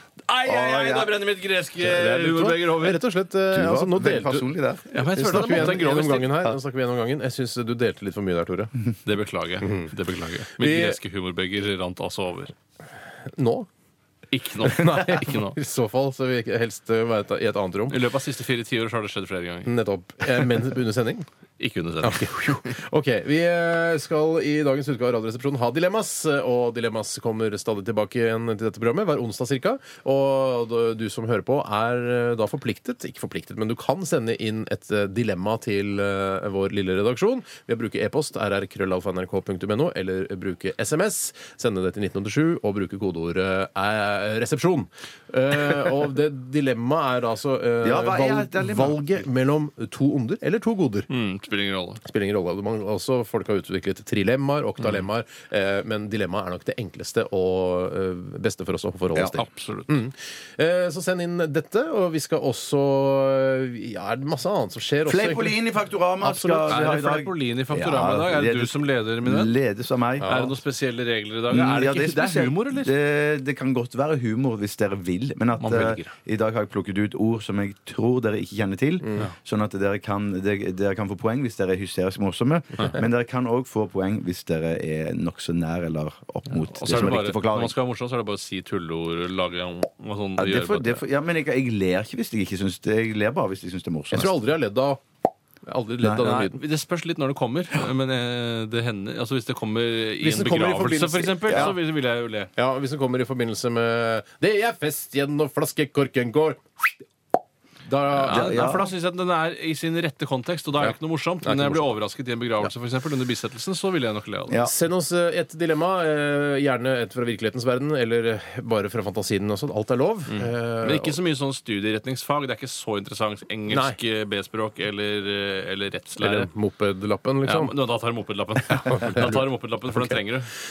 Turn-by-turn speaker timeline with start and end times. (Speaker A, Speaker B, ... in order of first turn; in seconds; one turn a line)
Speaker A: 0.2-3.0
Speaker B: 0.4-1.2
Speaker C: 1.8-4.5
Speaker B: 3.5-5.8
Speaker A: 4.9-6.4
Speaker C: 5.1-8.7
Speaker A: 9.0-12.5
Speaker C: 9.6-9.9
Speaker C: 10.6-11.0
Speaker C: 13.3-13.7
Speaker A: 14.3-15.6
Speaker C: 14.6-18.0
Speaker A: 17.9-19.7
Speaker C: 19.6-21.2
Speaker A: 21.6-22.6
Speaker C: 22.0-51.1
Speaker B: 47.8-49.0
Speaker A: 51.1-52.0
Speaker C: 52.0-65.6
Speaker A: 59.4-59.9
Speaker B: 65.0-70.3
Speaker A: 66.2-69.6
Speaker C: 70.2-70.5
Speaker A: 70.2-72.9
Speaker B: 71.5-87.7
Speaker A: 75.6-76.1
Speaker C: 79.0-79.3
Speaker A: 86.7-91.0
Speaker B: 90.4-94.3
Speaker C: 94.1-95.0
Speaker C: 95.6-96.6
Speaker B: 96.0-96.3
Speaker A: 96.2-102.5
Speaker C: 100.2-101.8
Speaker B: 101.5-101.7
Speaker C: 102.5-106.9
Speaker C: 107.8-108.8
Speaker A: 108.1-114.6
Speaker B: 108.3-108.9
Speaker C: 110.8-112.0
Speaker B: 114.5-114.7
Speaker C: 114.6-121.2
Speaker A: 120.3-126.5
Speaker C: 123.7-124.0
Speaker C: 126.2-127.7
Speaker A: 127.4-130.5
Speaker C: 129.1-130.2